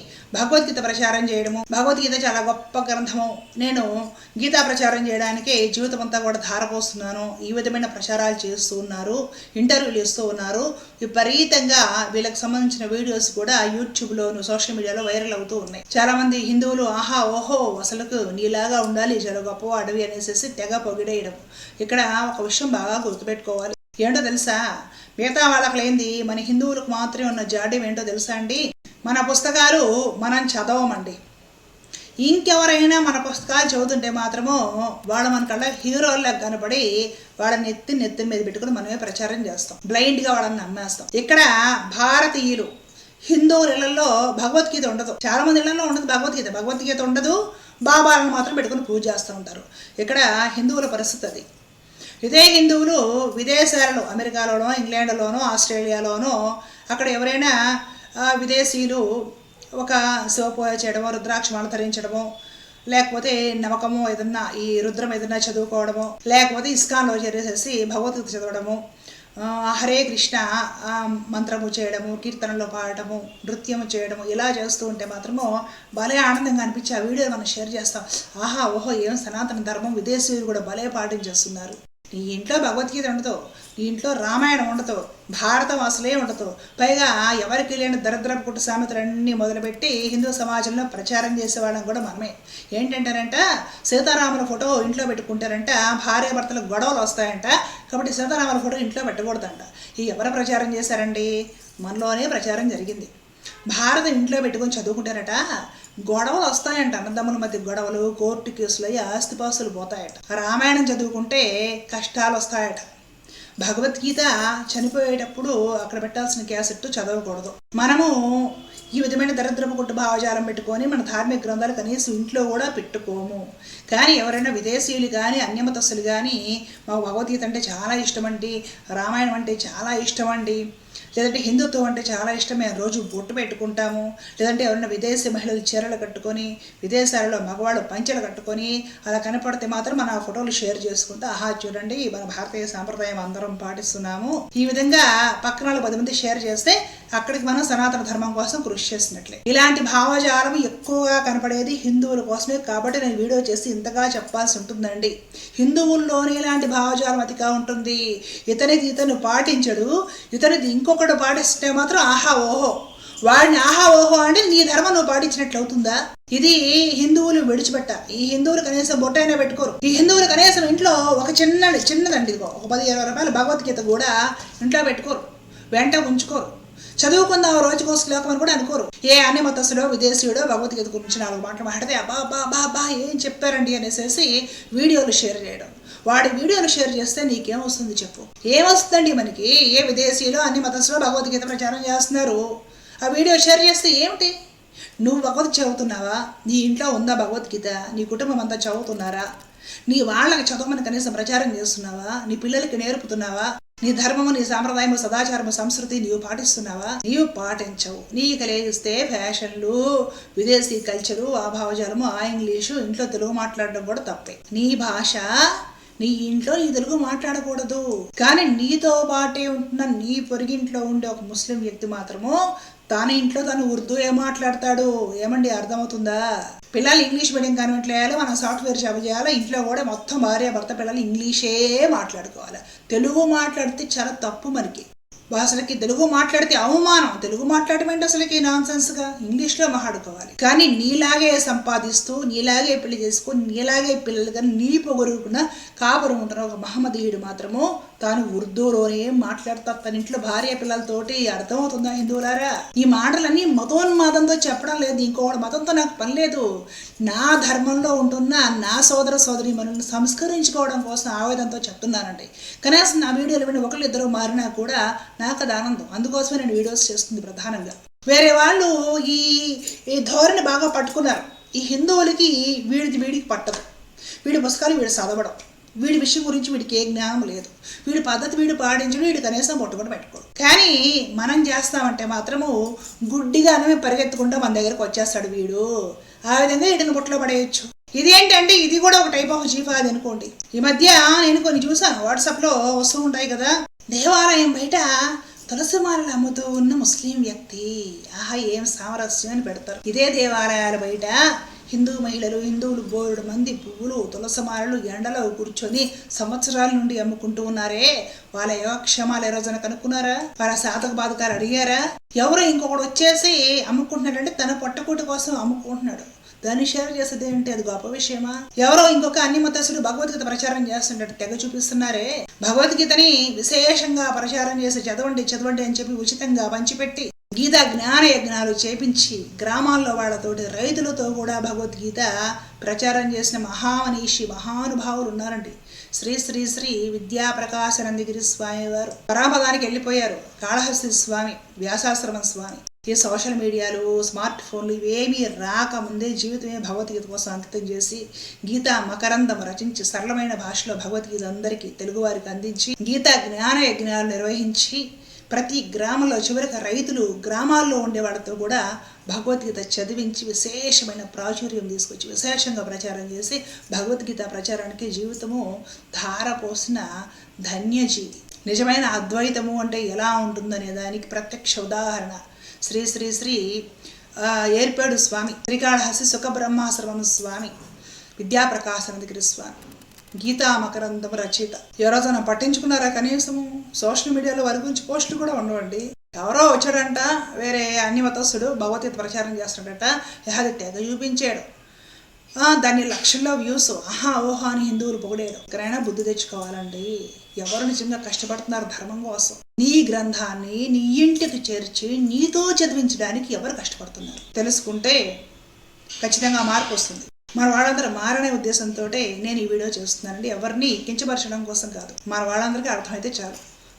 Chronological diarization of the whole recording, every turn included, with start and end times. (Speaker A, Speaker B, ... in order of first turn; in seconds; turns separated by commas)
Speaker A: 0.3-3.9, Speaker A: 4.4-24.6, Speaker A: 25.2-31.2, Speaker A: 32.2-36.9, Speaker A: 37.4-42.7, Speaker A: 43.3-51.4, Speaker A: 52.2-56.4, Speaker A: 56.9-57.5, Speaker A: 58.2-59.0, Speaker A: 59.8-62.3, Speaker A: 62.9-68.8, Speaker A: 69.4-101.3, Speaker A: 101.8-103.1, Speaker A: 103.7-105.4, Speaker A: 106.0-112.9, Speaker A: 113.6-118.1, Speaker A: 119.0-130.6, Speaker A: 131.2-158.0, Speaker A: 158.5-162.7, Speaker A: 163.3-176.5, Speaker A: 177.0-192.4, Speaker A: 193.0-194.3, Speaker A: 195.0-199.2, Speaker A: 199.9-209.8, Speaker A: 210.3-215.2, Speaker A: 216.0-222.4, Speaker A: 222.9-226.2, Speaker A: 226.7-256.4, Speaker A: 257.1-273.6, Speaker A: 274.2-282.5, Speaker A: 283.1-285.6, Speaker A: 286.3-294.9, Speaker A: 295.5-301.1, Speaker A: 301.7-365.4, Speaker A: 365.9-366.9, Speaker A: 367.4-373.4, Speaker A: 374.2-377.5, Speaker A: 378.2-379.6, Speaker A: 380.2-391.4, Speaker A: 392.4-405.0, Speaker A: 406.0-413.4